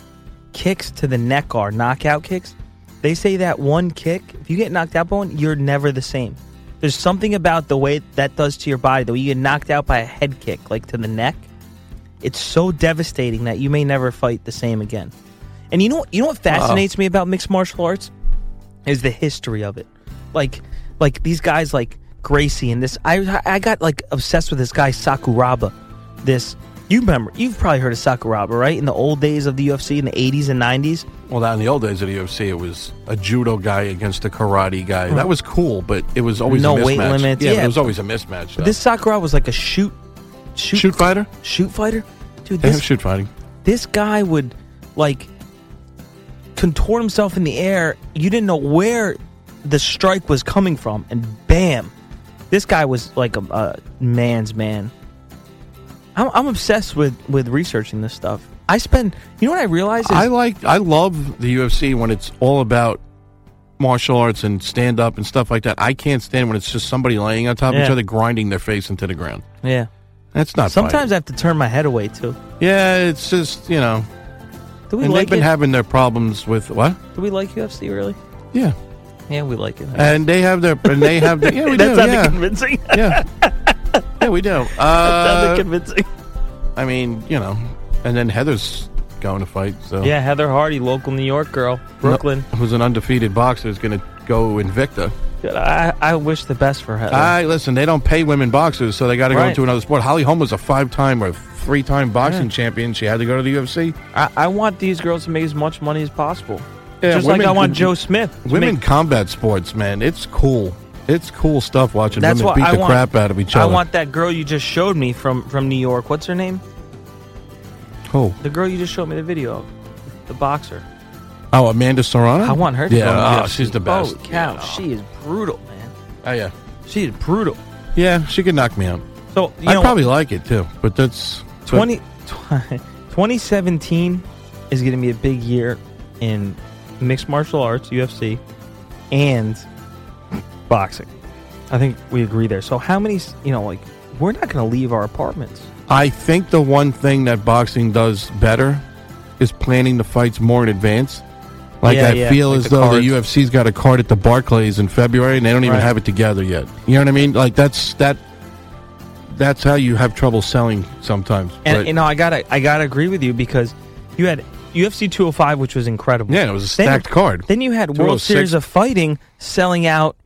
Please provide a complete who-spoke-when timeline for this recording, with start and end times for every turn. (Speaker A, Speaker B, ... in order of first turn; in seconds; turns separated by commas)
Speaker A: 0.5-11.5, Speaker A: 12.2-15.1, Speaker A: 15.7-18.1, Speaker B: 16.5-16.9, Speaker A: 18.9-31.1, Speaker B: 31.3-38.8, Speaker A: 36.5-37.9, Speaker A: 38.6-40.0, Speaker A: 40.5-42.8, Speaker B: 40.7-41.3, Speaker B: 42.6-43.3, Speaker A: 43.6-45.3, Speaker A: 46.5-51.9, Speaker A: 52.5-54.9, Speaker A: 56.1-60.3, Speaker B: 60.0-63.0, Speaker B: 63.8-69.4, Speaker A: 67.7-68.0, Speaker A: 69.6-69.9, Speaker B: 70.3-71.1, Speaker A: 70.7-72.4, Speaker B: 72.6-74.1, Speaker A: 74.9-75.5, Speaker B: 75.0-77.0, Speaker A: 77.1-78.2, Speaker A: 79.3-80.2, Speaker B: 79.9-83.2, Speaker A: 80.8-84.0, Speaker B: 84.2-85.7, Speaker A: 84.9-86.1, Speaker B: 86.7-90.1, Speaker A: 90.0-92.5, Speaker B: 92.0-95.1, Speaker A: 95.4-97.3, Speaker B: 97.1-104.0, Speaker A: 99.3-99.6, Speaker A: 102.2-102.5, Speaker A: 104.1-108.8, Speaker B: 107.0-113.8, Speaker A: 112.1-116.6, Speaker B: 118.1-118.4, Speaker A: 118.4-119.7, Speaker A: 120.2-120.8, Speaker B: 121.5-124.8, Speaker A: 122.4-125.9, Speaker B: 126.2-126.5, Speaker A: 126.8-127.6, Speaker B: 127.9-129.0, Speaker A: 129.3-130.0, Speaker B: 129.6-131.9, Speaker A: 131.6-138.4, Speaker A: 139.1-139.7, Speaker A: 140.7-141.1, Speaker A: 141.7-145.7, Speaker B: 145.9-148.8, Speaker B: 149.4-151.2, Speaker B: 151.8-158.2, Speaker A: 151.8-153.1, Speaker A: 155.6-155.9, Speaker B: 159.3-161.9, Speaker A: 161.6-170.2, Speaker B: 166.3-168.6